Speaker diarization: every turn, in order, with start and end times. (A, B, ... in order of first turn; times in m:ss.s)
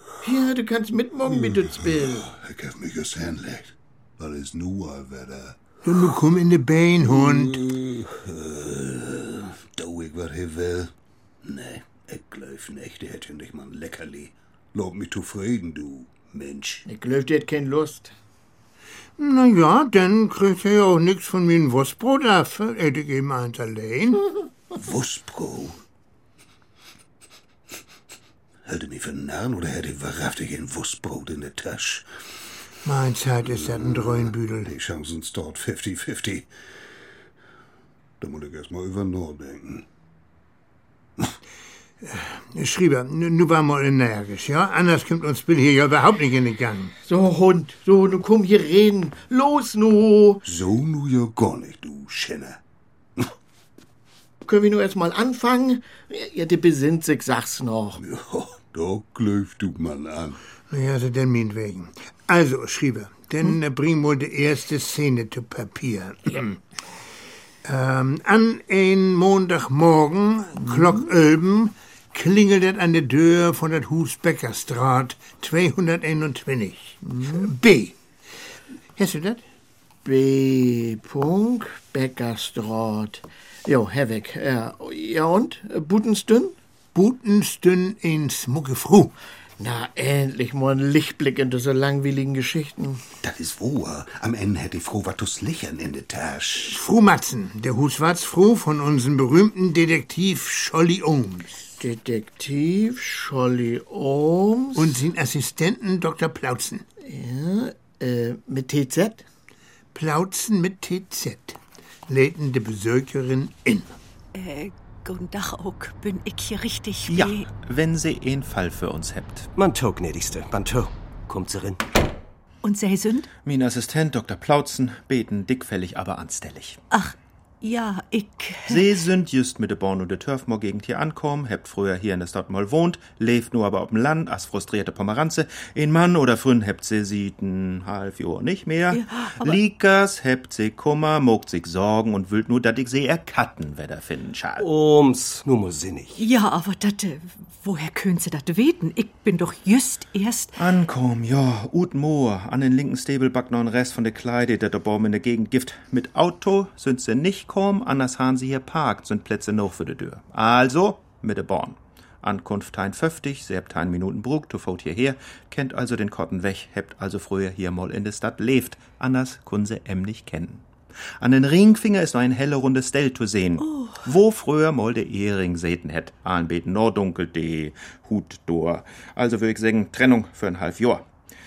0:00.2-0:02.3 A
0:01.4-0:05.6 B
0:05.8-0:07.6 C
0:07.4-0:10.9 B
0:11.4-0:16.8 B
0:16.8-0:18.1 A
0:19.2-0:24.2 C
0:24.7-0:25.8 B
0:28.6-0:32.1 B
0:32.8-0:34.7 C
0:33.6-0:36.5 B
0:38.2-0:39.8 B
0:42.0-0:46.9 C
0:47.0-0:50.4 A
0:50.4-0:52.6 B
0:54.4-0:58.0 A
0:58.0-1:00.4 B
1:00.7-1:06.6 C
1:07.6-1:18.0 C
1:19.0-1:19.4 C
1:20.0-1:26.5 A
1:26.9-1:29.1 C
1:29.6-1:33.0 A
1:33.2-1:36.8 B
1:36.6-1:41.6 C
1:41.8-1:45.0 A
1:44.7-1:46.8 C
1:47.0-1:49.2 A
1:49.9-1:53.9 C
1:54.3-1:57.4 D
1:57.1-1:59.5 E
1:59.6-2:01.8 F
2:02.6-2:03.3 D
2:03.4-2:06.8 E
2:06.9-2:09.0 D
2:08.7-2:24.7 E
2:18.9-2:19.6 D
2:24.6-2:26.2 F
2:26.2-2:30.5 D
2:30.6-2:50.6 E
2:51.2-3:01.0 E
2:53.6-2:54.0 D